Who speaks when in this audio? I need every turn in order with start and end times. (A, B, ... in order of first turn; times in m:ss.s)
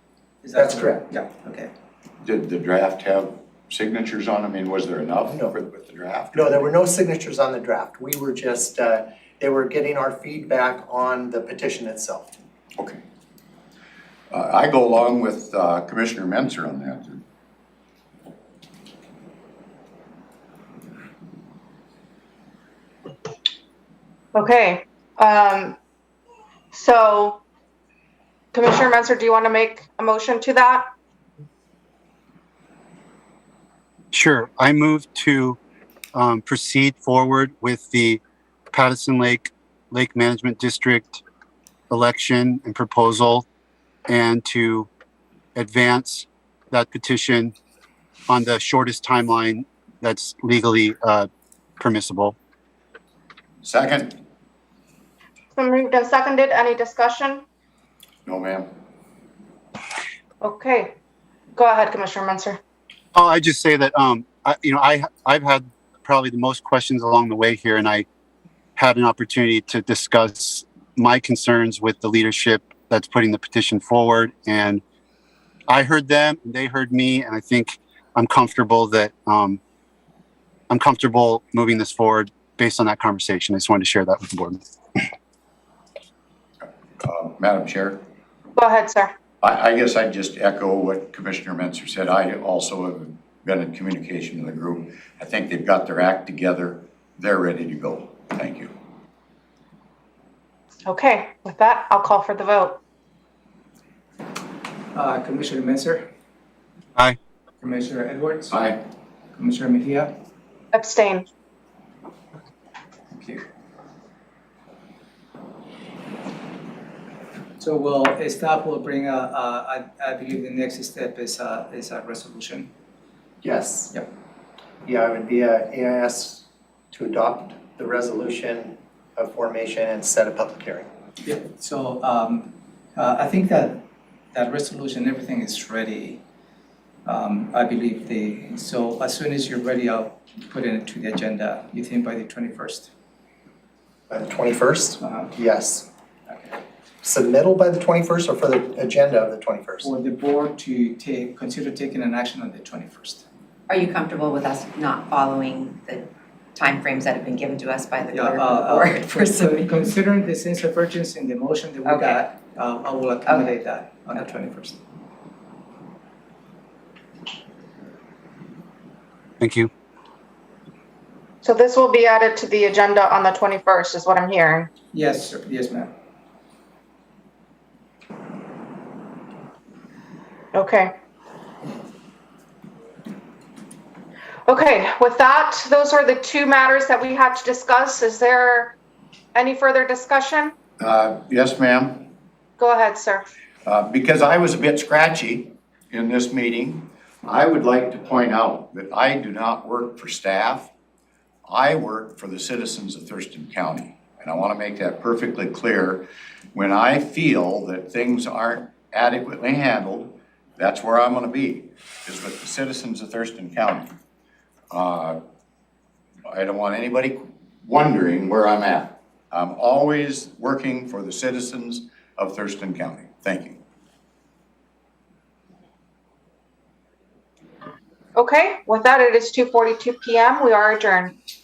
0:00.4-0:01.7 A
0:00.6-0:01.0 B
0:02.2-0:06.7 C
0:05.3-0:05.6 B
0:06.3-0:12.3 B
0:14.3-0:17.2 C
0:24.4-0:25.8 D
0:26.7-0:27.4 D
0:28.5-0:30.9 D
0:34.1-0:35.6 E
0:36.2-0:38.2 E
0:38.7-0:41.2 E
0:41.9-0:43.5 E
0:44.1-0:44.9 E
0:45.6-0:47.5 E
0:48.3-0:51.3 E
0:51.8-0:52.4 E
0:53.6-0:54.2 C
0:55.6-0:57.4 D
0:58.3-0:58.7 C
1:00.4-1:00.9 D
1:01.6-1:02.6 D
1:03.2-1:08.1 E
1:08.8-1:14.8 E
1:15.7-1:19.6 E
1:20.7-1:24.6 E
1:27.0-1:28.0 C
1:28.6-1:29.1 D
1:29.4-1:38.7 C
1:40.9-1:42.8 D
1:44.9-1:46.1 A
1:47.6-1:48.6 A
1:48.5-1:48.8 C
1:49.4-1:50.1 A
1:50.7-1:51.3 D
1:53.1-1:53.4 A
1:57.6-2:02.7 A
2:03.4-2:03.9 B
2:04.8-2:10.9 B
2:11.2-2:16.2 A
2:17.1-2:22.9 A
2:24.1-2:25.9 B
2:25.0-2:25.3 A
2:27.0-2:29.9 B
2:29.8-2:33.2 A
2:33.7-2:39.8 F
2:38.1-2:44.8 A
2:41.8-2:42.2 F
2:43.3-2:43.6 F
2:49.4-2:49.7 E
2:51.4-2:54.7 D
2:54.9-2:55.9 A
3:00.5-3:00.9 D
3:04.5-3:08.8 D
3:09.3-3:10.6 D
3:10.8-3:12.1 C
3:12.6-3:13.2 D
3:13.6-3:20.7 C
3:21.5-3:34.0 C
3:34.7-3:35.2 C
3:36.3-3:43.6 C
3:48.2-3:51.1 D